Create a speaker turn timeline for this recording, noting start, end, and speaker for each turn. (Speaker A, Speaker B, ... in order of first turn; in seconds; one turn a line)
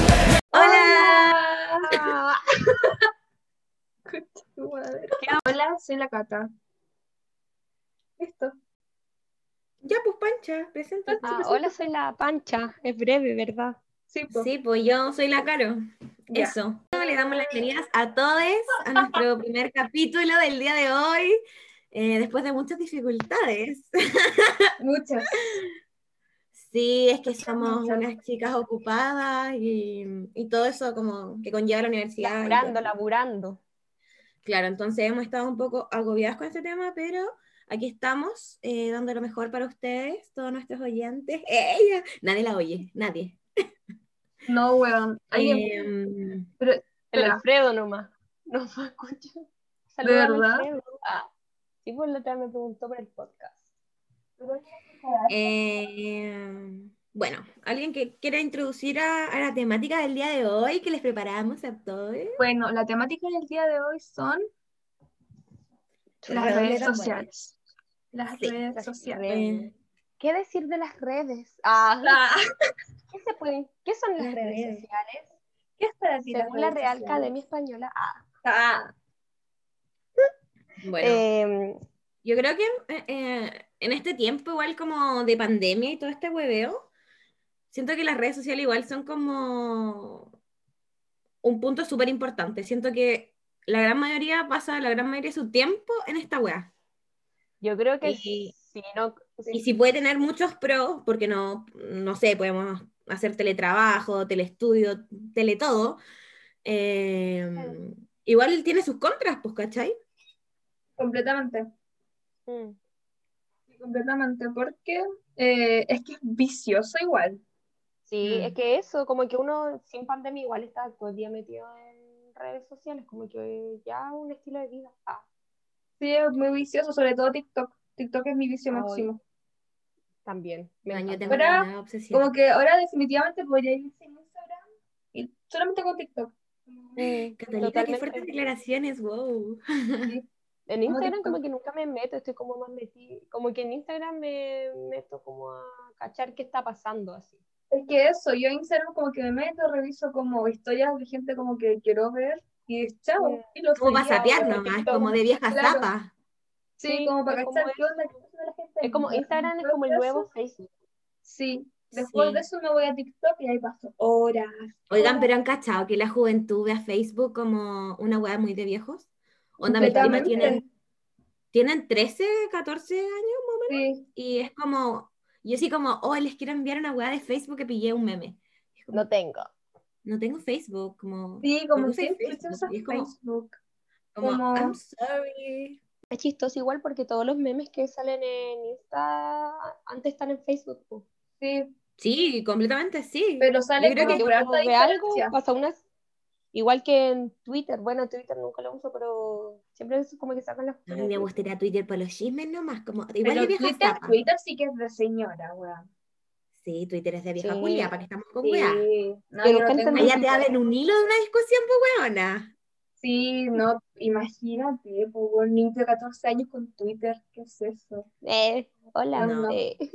Speaker A: 0.5-1.4
Speaker B: 0.5-2.4
Speaker C: 0.9-1.9
Speaker C: 4.1-6.5
Speaker B: 5.2-5.4
Speaker C: 8.2-8.5
Speaker A: 9.8-11.2
Speaker C: 11.1-11.8
Speaker B: 11.2-13.8
Speaker C: 14.1-14.5
Speaker A: 14.3-21.4
Speaker A: 21.9-24.7
Speaker C: 24.8-25.4
Speaker A: 26.5-32.8
Speaker C: 27.3-28.0
Speaker B: 32.2-33.6
Speaker A: 34.4-43.4
Speaker C: 44.5-45.9
Speaker A: 45.3-46.5
Speaker C: 46.6-47.4
Speaker B: 47.1-49.4
Speaker B: 49.9-51.3
Speaker C: 50.0-50.7
Speaker B: 51.8-53.6
Speaker C: 54.4-55.4
Speaker A: 55.3-62.4
Speaker C: 62.4-64.4
Speaker A: 66.2-67.3
Speaker C: 66.3-67.5
Speaker C: 68.1-69.2
Speaker B: 68.7-72.2
Speaker A: 69.3-69.7
Speaker C: 72.0-72.4
Speaker B: 73.1-75.3
Speaker A: 74.2-74.8
Speaker C: 75.8-77.3
Speaker B: 76.3-78.2
Speaker C: 78.4-78.9
Speaker A: 80.8-81.2
Speaker B: 81.0-81.8
Speaker A: 82.2-86.9
Speaker A: 87.7-90.3
Speaker A: 91.4-96.7
Speaker B: 97.6-99.6
Speaker A: 98.0-98.5
Speaker A: 99.5-106.0
Speaker A: 106.6-109.9
Speaker C: 111.0-111.7
Speaker B: 112.5-112.8
Speaker C: 113.7-117.4
Speaker B: 118.1-125.2
Speaker A: 118.2-118.5
Speaker C: 126.0-129.2
Speaker B: 128.7-129.1
Speaker B: 130.2-131.5
Speaker A: 130.9-132.3
Speaker C: 131.3-134.6
Speaker C: 135.1-137.0
Speaker B: 137.0-138.2
Speaker A: 137.4-140.1
Speaker B: 140.7-147.3
Speaker C: 140.9-141.4
Speaker C: 147.7-155.9
Speaker B: 153.2-153.4
Speaker A: 153.8-156.1
Speaker B: 154.1-155.1
Speaker C: 156.8-160.3
Speaker B: 156.8-158.1
Speaker B: 158.8-160.7
Speaker C: 161.2-165.3
Speaker A: 161.9-162.4
Speaker A: 164.9-169.1
Speaker A: 169.6-170.6
Speaker B: 169.6-170.6
Speaker C: 169.8-170.6
Speaker A: 171.5-179.0
Speaker C: 173.7-174.0
Speaker B: 178.9-179.5
Speaker A: 180.0-183.1
Speaker C: 181.4-183.6
Speaker A: 184.2-185.8
Speaker C: 184.2-184.8
Speaker B: 186.1-191.0
Speaker C: 191.4-191.7
Speaker A: 192.0-194.2
Speaker C: 193.4-195.3
Speaker B: 194.0-195.8
Speaker B: 196.5-201.3
Speaker A: 200.9-204.2
Speaker C: 203.2-205.9
Speaker A: 206.6-208.8
Speaker B: 207.4-207.9
Speaker C: 208.4-210.4
Speaker B: 209.4-210.4
Speaker A: 209.9-212.5
Speaker C: 213.0-218.1
Speaker B: 218.2-219.8
Speaker A: 219.1-219.6
Speaker C: 219.2-219.6